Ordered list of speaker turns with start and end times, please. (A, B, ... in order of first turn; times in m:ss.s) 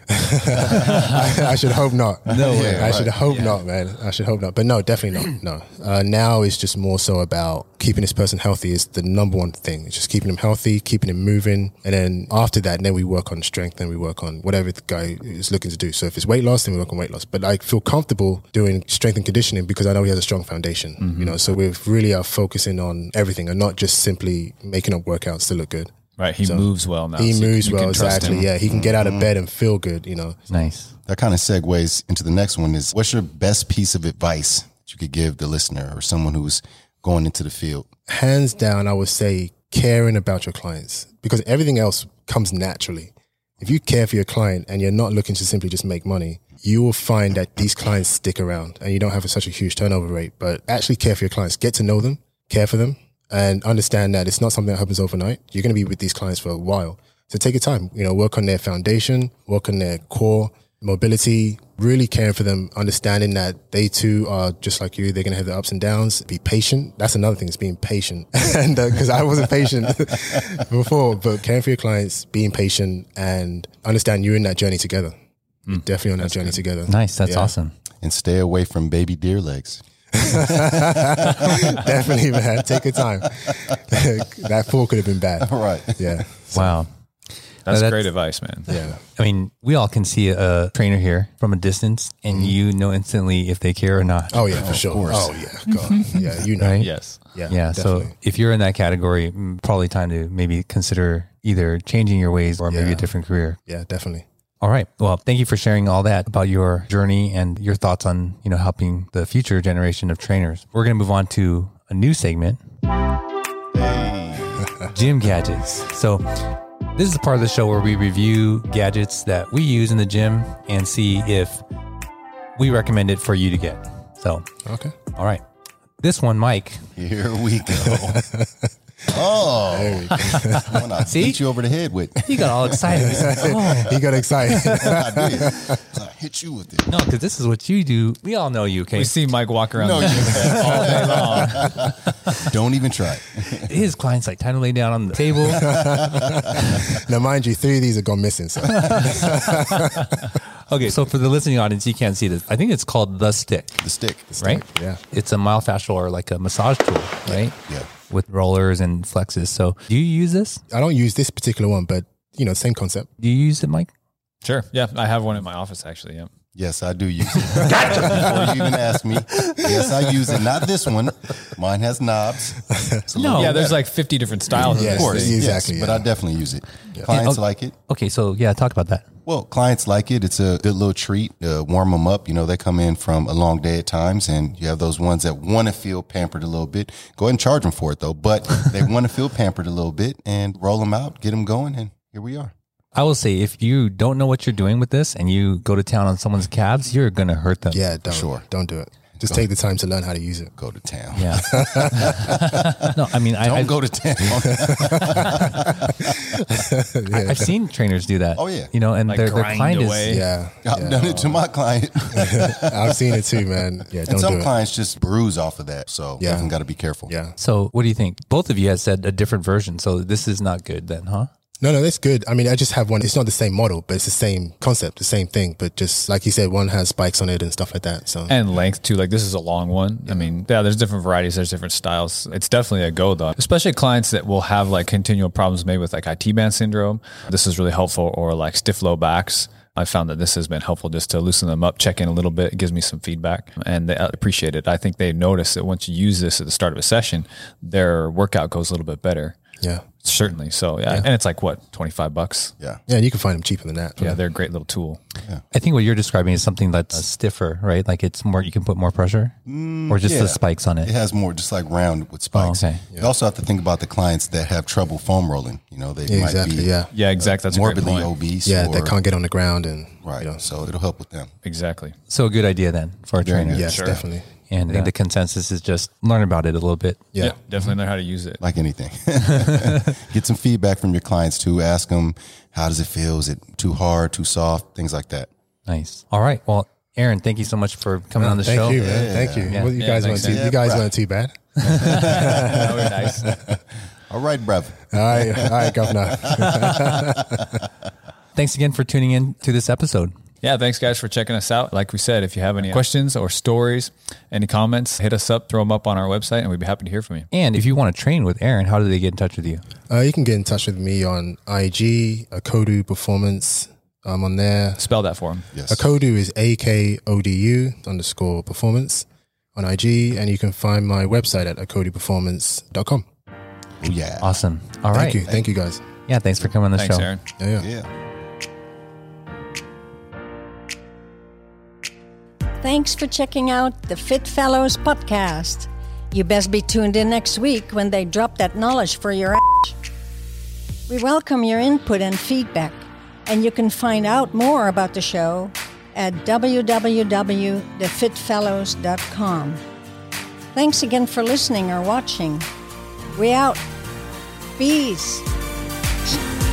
0:00.1-0:25.9 A
0:00.8-0:01.2 B
0:02.3-0:03.0 C
0:02.4-0:03.2 D
0:03.3-0:03.6 B
0:21.0-0:21.4 B
0:26.2-0:28.5 B
0:26.4-0:30.4 A
0:28.2-0:29.3 D
0:30.5-0:30.9 C
0:31.1-0:37.9 D
0:38.1-1:15.1 A
1:15.7-1:16.6 B
1:15.7-1:17.5 A
1:16.9-1:17.8 C
1:18.0-1:20.8 D
1:20.2-1:26.8 A
1:21.4-1:21.8 D
1:25.4-1:26.1 D
1:26.5-1:26.9 C
1:27.7-1:28.7 B
1:27.7-1:28.1 C
1:28.7-1:29.0 A
1:29.2-1:34.4 C
1:32.3-1:32.6 A
1:34.3-1:38.2 A
1:34.6-1:35.4 D
1:36.6-1:36.9 C
1:36.8-1:37.2 B
1:37.5-1:43.6 C
1:42.7-1:43.1 A
1:43.7-1:44.2 A
1:44.6-1:52.6 C
1:53.7-1:54.6 D
1:54.9-1:56.4 C
1:57.0-2:01.6 C
2:02.6-2:04.5 C
2:04.7-2:05.0 A
2:05.2-2:05.4 C
2:06.0-2:06.8 C
2:07.0-2:08.2 D
2:07.8-2:08.7 A
2:09.1-2:14.0 D
2:09.7-2:10.9 A
2:11.0-2:11.4 C
2:12.2-2:14.0 C
2:13.2-2:15.8 A
2:14.6-2:16.9 D
2:16.9-2:19.3 C
2:18.9-2:21.9 B
2:19.8-2:23.7 D
2:20.2-2:21.1 C
2:23.6-2:25.7 C
2:25.5-2:30.3 A
2:25.7-2:26.3 D
2:28.9-2:29.6 C
2:30.7-2:33.8 C
2:33.8-2:34.2 D
2:34.3-2:35.0 A
2:34.4-2:40.6 C
2:40.7-2:43.1 A
2:43.2-2:43.9 C
2:44.4-2:46.3 B
2:46.6-2:53.9 D
2:47.8-2:48.2 B
2:53.2-2:53.6 C
2:53.3-2:55.4 B
2:54.5-2:57.8 D
2:54.7-2:56.1 A
2:57.1-2:59.1 C
2:59.3-3:12.5 D
3:12.9-3:17.8 C
3:17.7-3:20.5 A
3:18.1-3:18.4 D
3:20.6-3:26.1 D
3:21.2-3:23.8 C
3:21.4-3:22.3 A
3:24.6-3:25.6 A
3:26.4-3:27.5 A
3:27.1-3:30.2 C
3:28.4-3:28.7 D
3:29.1-3:30.2 B
3:30.1-3:31.3 A
3:30.6-3:33.0 D
3:32.1-3:34.5 A
3:34.1-3:37.1 D
3:36.2-3:36.5 A
3:37.0-3:37.4 A
3:37.4-3:41.3 C
3:41.6-3:48.4 A
3:48.3-4:09.4 B
4:09.6-4:09.9 A
4:10.0-4:12.5 B
4:12.9-4:14.2 A
4:14.0-4:15.0 B
4:15.5-4:19.4 C
4:19.5-4:28.9 D
4:19.9-4:20.9 C
4:22.3-4:22.8 C
4:26.1-4:26.9 A
4:26.9-4:28.2 B
4:28.4-4:30.4 A
4:30.0-4:31.3 D
4:31.4-4:32.0 B
4:32.1-4:37.0 C
4:33.2-4:33.8 D
4:33.5-4:34.3 A
4:33.6-4:34.0 B
4:37.2-4:38.4 B
4:38.4-4:45.3 D
4:45.7-4:48.8 C
4:48.2-4:53.6 A
4:48.6-4:49.6 D
4:49.5-4:49.9 C
4:49.8-4:50.4 B
4:50.2-4:50.9 D
4:51.7-4:52.6 D
4:51.9-4:53.4 B
4:54.1-4:55.7 D
4:54.9-4:57.6 A
4:56.3-4:57.1 D
4:58.4-5:00.1 C
5:00.4-5:07.3 B
5:07.3-5:09.6 C
5:09.9-5:14.9 A
5:14.8-5:15.5 B
5:15.5-5:15.8 D
5:15.7-5:23.0 A
5:23.8-5:24.3 D
5:24.2-5:25.2 C
5:24.9-5:25.8 A
5:26.1-5:27.1 C
5:26.8-5:27.2 B
5:27.4-5:27.7 A
5:27.6-5:27.9 D
5:32.6-5:39.8 E
5:40.9-5:49.6 E
5:50.5-5:52.5 E
5:53.2-5:53.6 E
5:54.6-5:55.3 E